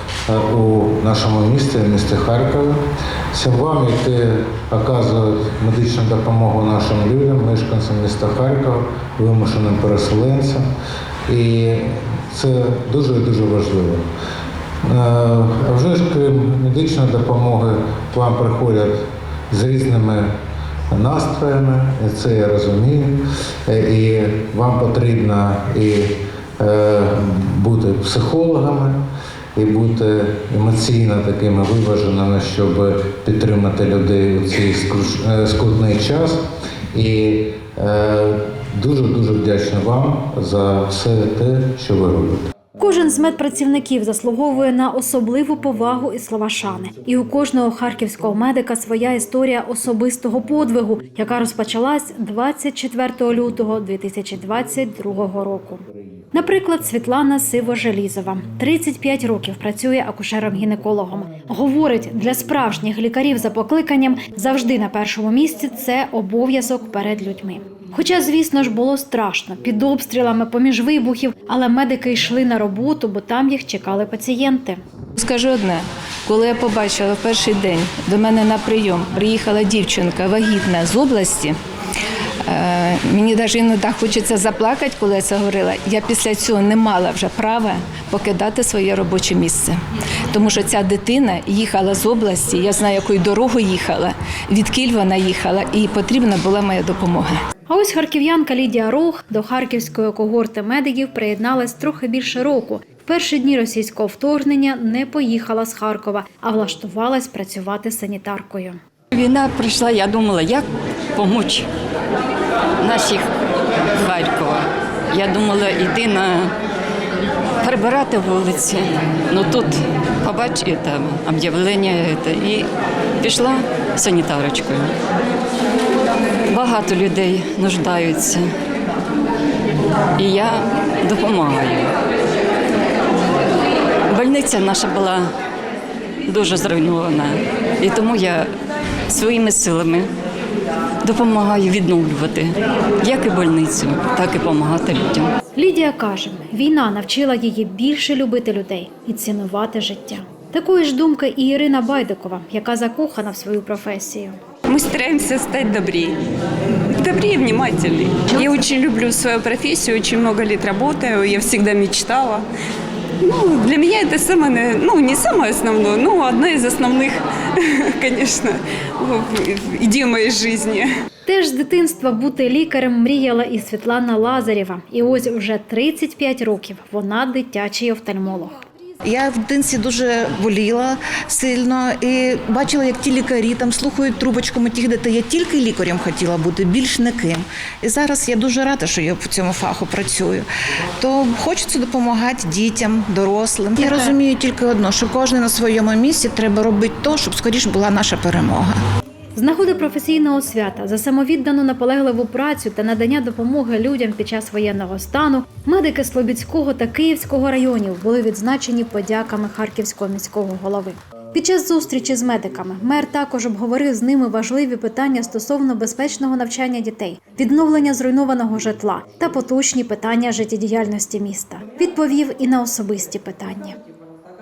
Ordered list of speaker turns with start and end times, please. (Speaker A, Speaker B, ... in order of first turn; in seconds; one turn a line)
Speaker A: 0.3-2.8
Speaker A: 3.3-10.7
Speaker A: 11.3-14.1
Speaker A: 14.8-19.0
Speaker A: 19.5-20.3
Speaker A: 20.9-29.0
Speaker A: 29.6-42.5
Speaker B: 42.8-74.8
Speaker C: 75.2-81.6
Speaker C: 82.4-89.8
Speaker C: 90.3-97.4
Speaker B: 97.7-108.8
Speaker D: 109.1-111.7
Speaker D: 112.8-113.3
Speaker D: 114.0-116.5
Speaker D: 117.6-122.7
Speaker D: 123.2-124.9
Speaker D: 126.5-128.5
Speaker D: 130.2-131.9
Speaker D: 134.1-135.2
Speaker D: 136.3-138.5
Speaker D: 139.1-140.1
Speaker D: 141.1-145.3
Speaker B: 145.6-154.3
Speaker E: 154.7-156.2
Speaker E: 157.0-162.4
Speaker E: 163.2-170.9
Speaker B: 171.3-178.6
Speaker F: 179.0-198.8
Speaker B: 199.3-223.8